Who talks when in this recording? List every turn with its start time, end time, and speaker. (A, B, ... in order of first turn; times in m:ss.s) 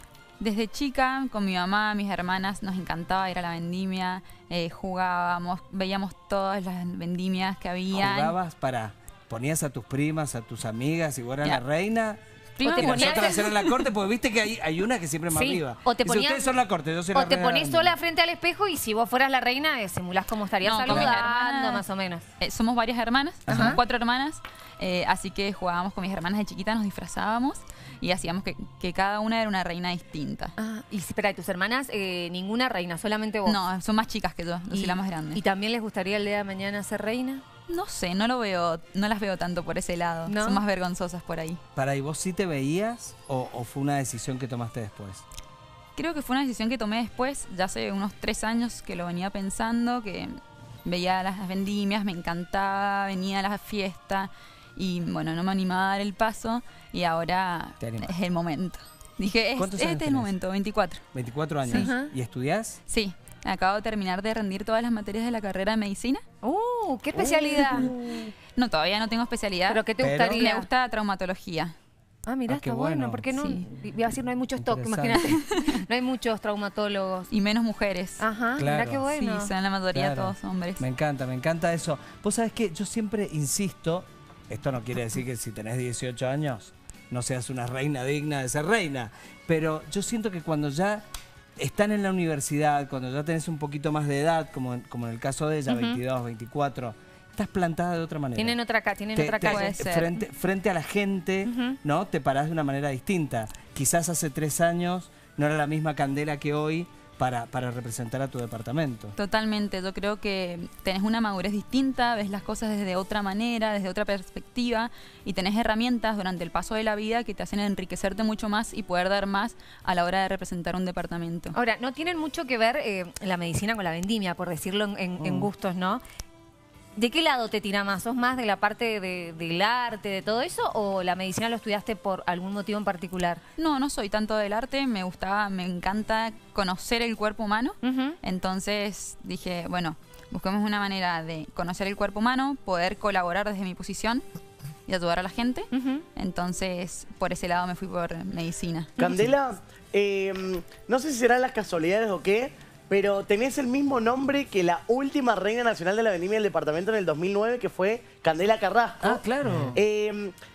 0:00.4-0:08.4 A
0:07.9-0:18.0 B
0:12.6-0:13.7 A
0:12.6-0:13.4 C
0:15.3-0:16.5 C
0:17.1-0:22.2 C
0:20.6-0:21.8 A
0:20.9-0:21.2 B
0:22.4-0:30.6 A
0:23.5-0:23.8 B
0:23.5-0:23.8 C
0:30.6-0:33.6 C
0:33.4-0:35.4 A
0:34.7-0:37.4 C
0:37.7-0:41.6 A
0:40.3-0:40.6 C
0:41.8-0:45.2 B
0:46.0-1:01.0 A
0:57.8-0:58.1 B
0:59.6-1:00.3 B
1:01.1-1:02.8 B
1:01.7-1:02.1 C
1:02.9-1:06.2 A
1:06.4-1:08.3 C
1:08.5-1:11.7 A
1:09.7-1:10.7 C
1:10.0-1:10.4 B
1:12.3-1:17.3 C
1:12.5-1:13.3 B
1:13.4-1:13.6 A
1:14.6-1:15.4 B
1:15.4-1:15.8 A
1:17.3-1:18.2 A
1:18.2-1:19.5 C
1:18.6-1:19.1 B
1:19.1-1:20.8 A
1:19.9-1:31.0 B
1:31.6-1:38.6 B
1:35.7-1:36.0 C
1:38.4-1:39.8 C
1:39.1-1:49.1 B
1:39.4-1:40.1 A
1:41.4-1:41.8 C
1:49.2-2:01.6 A
2:01.5-2:06.0 C
2:05.2-2:05.5 B
2:07.0-2:13.4 C
2:13.6-2:24.2 A
2:17.8-2:18.2 C
2:24.8-2:28.9 A
2:25.7-2:26.0 C
2:29.0-2:39.2 D
2:39.0-2:39.8 B
2:39.7-2:40.3 D